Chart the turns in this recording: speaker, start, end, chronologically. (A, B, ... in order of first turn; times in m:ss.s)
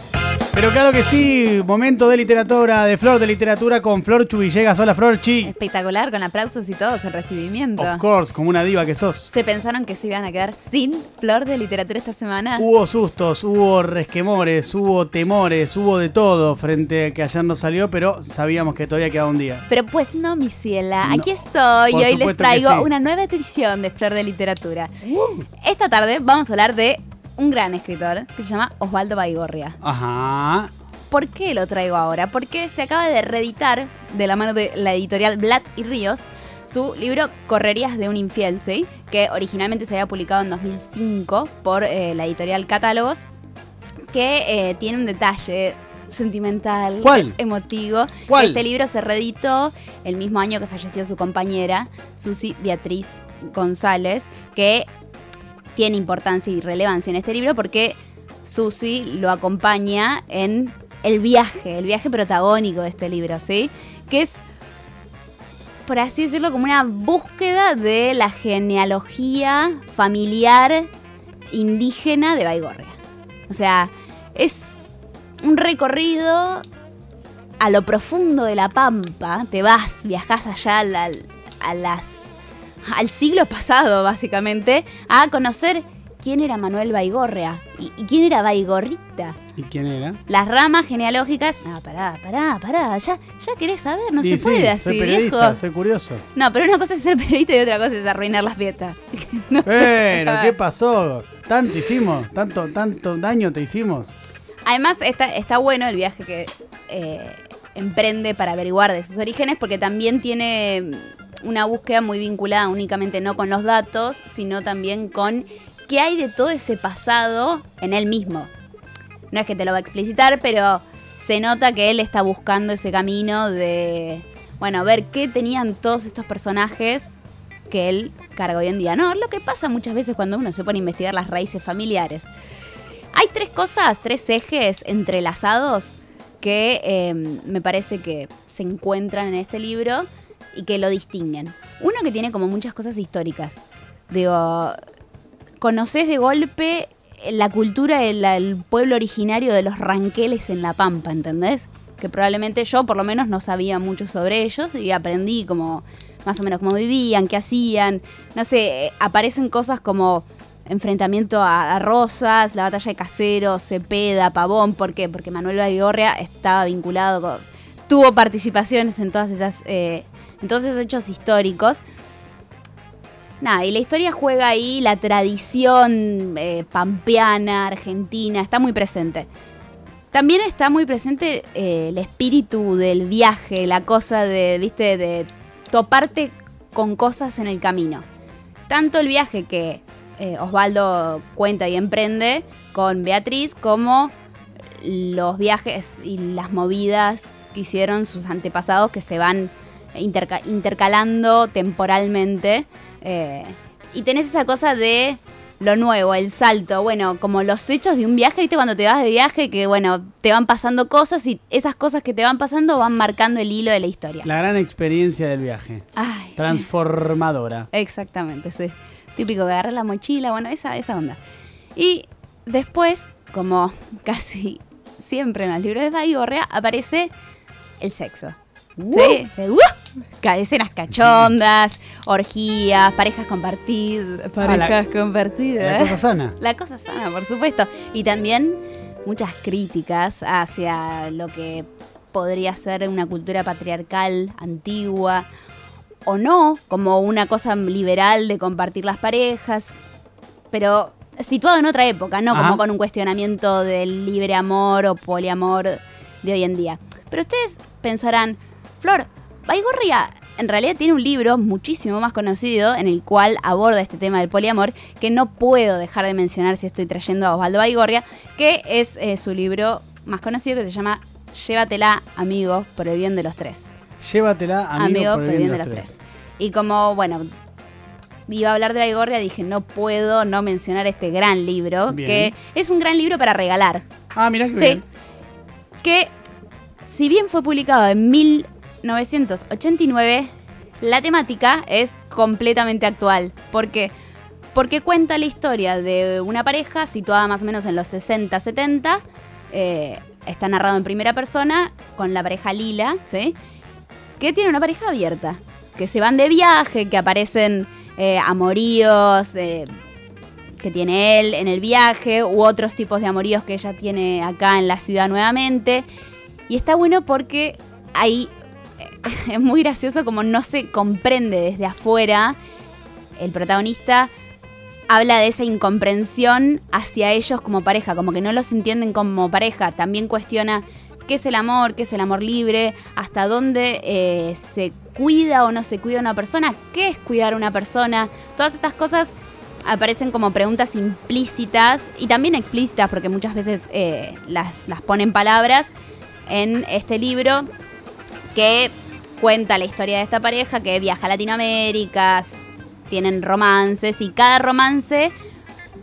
0:00.5-0:05.5 A
0:05.4-0:08.0 B
0:07.8-0:09.3 A
0:09.3-0:12.6 B
0:12.6-0:19.6 A
0:19.7-0:25.0 B
0:21.0-0:21.3 A
0:21.9-0:22.9 A
0:25.0-0:25.4 A
0:25.6-0:29.8 B
0:29.8-0:30.7 A
0:31.1-0:43.2 B
0:44.1-0:54.9 B
0:47.0-0:47.4 A
0:48.3-0:48.6 A
0:55.7-1:04.4 B
1:05.8-1:10.9 B
1:11.5-1:13.0 B
1:13.5-1:14.8 B
1:15.4-1:16.6 B
1:17.6-1:22.3 B
1:22.8-1:29.4 B
1:29.6-1:30.2 A
1:30.3-1:35.6 B
1:34.2-1:36.2 A
1:36.3-1:40.5 B
1:39.6-1:44.1 A
1:44.6-1:58.5 B
1:59.3-2:07.1 B
2:07.7-2:12.3 B
2:13.1-2:24.8 B
2:25.6-2:51.8 B
2:53.4-2:59.3 B
3:00.1-3:08.0 B
3:08.7-3:14.1 B
3:14.7-3:34.3 B
3:34.2-3:35.8 A
3:36.0-3:36.7 B
3:36.4-3:37.7 A
3:37.7-3:41.2 B
3:41.7-3:47.1 B
3:47.8-3:48.4 B
3:48.8-3:49.2 A
3:48.9-4:05.3 B
3:54.4-3:54.8 A
3:55.6-3:56.4 A
4:06.0-4:09.8 B
4:10.5-4:33.7 B
4:12.3-4:12.6 A
4:34.0-4:35.9 A
4:34.8-4:37.2 B
4:38.3-4:43.8 B
4:41.9-4:42.3 A
4:44.1-4:44.8 A
4:44.6-4:44.8 B
4:45.8-4:46.1 B
4:46.8-4:50.3 B
4:50.8-4:53.9 B
4:54.5-5:03.4 B
5:04.2-5:09.7 B
5:10.6-5:15.9 B
5:16.5-5:22.4 B
5:23.2-5:24.1 B
5:24.9-5:39.1 B
5:39.6-5:45.7 B
5:46.3-5:47.5 B
5:48.3-5:55.1 B